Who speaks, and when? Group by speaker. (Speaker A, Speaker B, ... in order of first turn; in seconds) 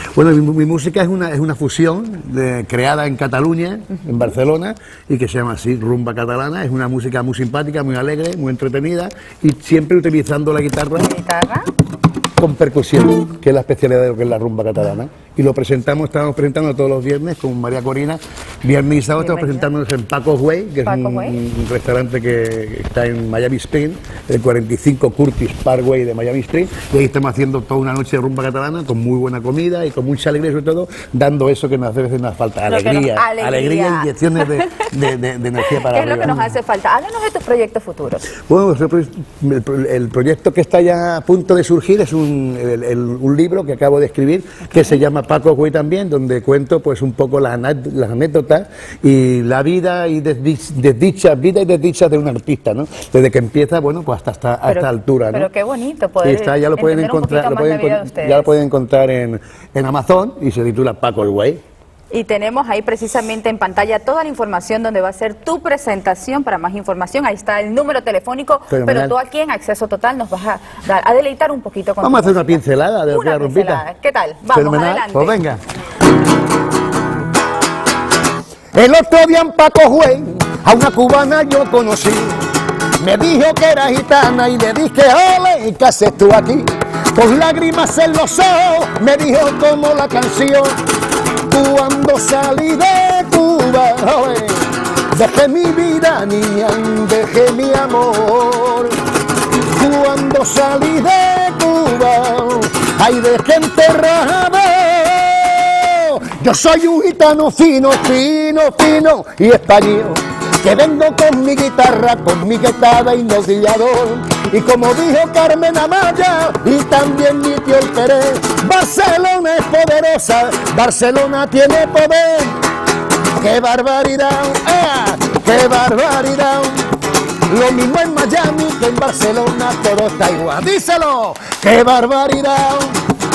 Speaker A: 0.1-11.1, 12.4-36.5, 38.5-55.5, 56.2-61.6, 68.7-69.2, 72.0-73.8, 74.5-75.6, 78.8-82.4, 83.0-90.8, 91.5-99.0, 99.7-122.6, 123.4-126.9, 127.5-133.0
Speaker B: 11.0-11.7, 19.2-19.7, 20.9-21.4, 32.7-34.9, 35.6-38.3, 54.7-58.5, 62.1-75.4